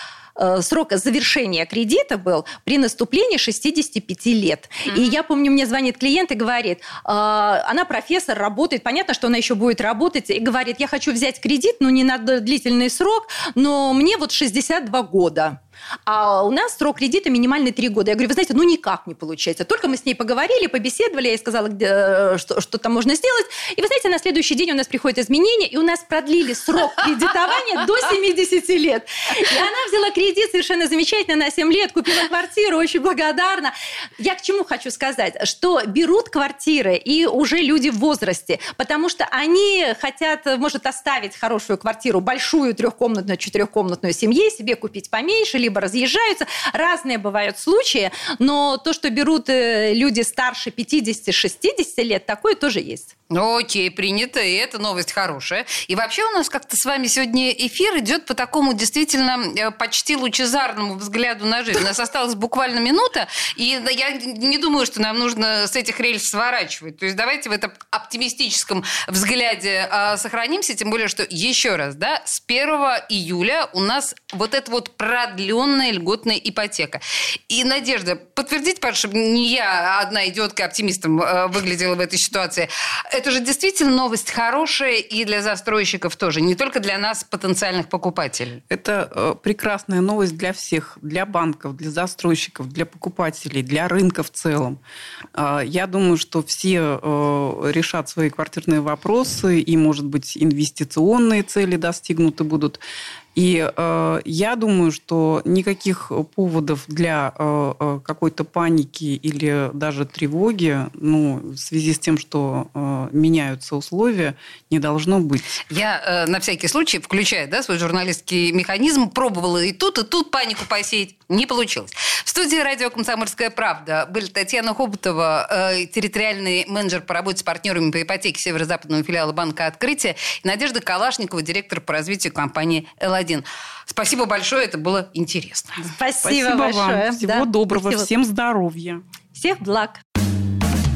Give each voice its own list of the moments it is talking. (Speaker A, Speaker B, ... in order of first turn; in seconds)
Speaker A: 0.4-53.1, 135.9-138.1, 139.3-140.0
Speaker B: 53.3-88.6, 115.7-135.9
Speaker C: 88.7-94.8, 95.3-102.8, 103.3-115.6, 136.2-139.0